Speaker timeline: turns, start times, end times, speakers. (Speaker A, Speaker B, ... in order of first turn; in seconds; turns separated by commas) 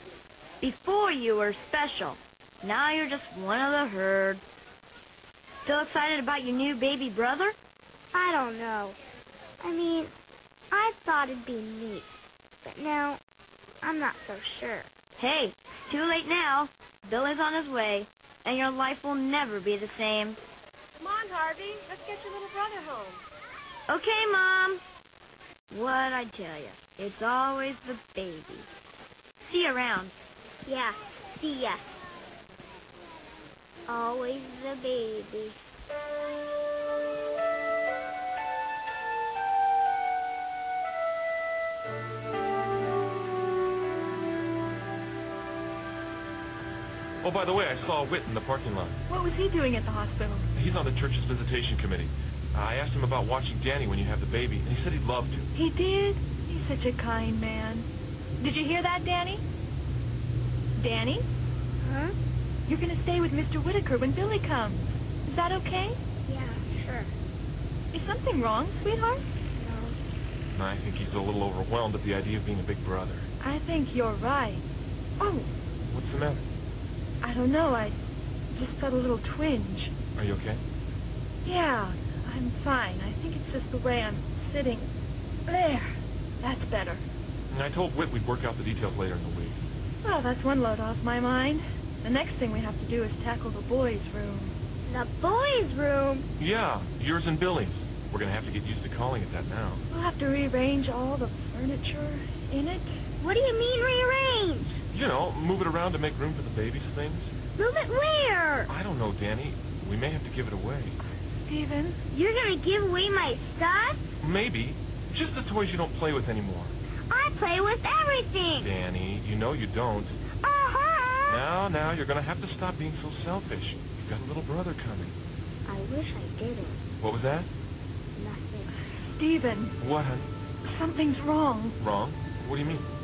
Speaker A: 0.6-4.4, Speaker A: 5.7-7.6, Speaker B: 8.1-9.0, Speaker B: 9.6-10.1, Speaker B: 10.7-13.2, Speaker B: 13.8-14.9, Speaker A: 15.2-20.4, Speaker C: 21.0-23.2, Speaker A: 23.9-24.8, Speaker A: 25.7-28.7, Speaker A: 29.4-30.1, Speaker B: 30.6-32.0, Speaker B: 33.9-35.6, Speaker D: 47.2-49.0, Speaker E: 49.1-50.5, Speaker D: 50.5-55.5, Speaker E: 55.5-59.4, Speaker E: 60.8-61.3, Speaker B: 61.8-62.1, Speaker E: 62.7-66.0, Speaker B: 66.3-67.1, Speaker E: 67.9-69.3, Speaker B: 69.6-70.0, Speaker D: 70.5-73.3, Speaker E: 73.4-74.7, Speaker E: 75.2-75.5, Speaker D: 75.9-76.5, Speaker E: 77.2-79.9, Speaker D: 80.2-80.6, Speaker E: 81.5-84.9, Speaker E: 85.5-87.1, Speaker D: 87.5-89.7, Speaker E: 90.0-94.6, Speaker B: 94.8-96.3, Speaker D: 96.4-99.8, Speaker E: 99.9-102.9, Speaker B: 103.2-104.8, Speaker D: 104.9-107.3, Speaker B: 107.6-108.7, Speaker D: 108.7-111.0, Speaker E: 111.3-112.0, Speaker B: 112.1-114.2, Speaker D: 114.2-116.8, Speaker B: 117.1-118.7, Speaker D: 118.6-120.2, Speaker B: 120.4-121.5, Speaker D: 121.3-125.2, Speaker B: 125.7-126.8, Speaker D: 127.0-127.5, Speaker B: 128.2-128.7, Speaker E: 129.0-129.8, Speaker D: 129.8-130.3, Speaker E: 130.6-131.8, Speaker D: 131.8-132.9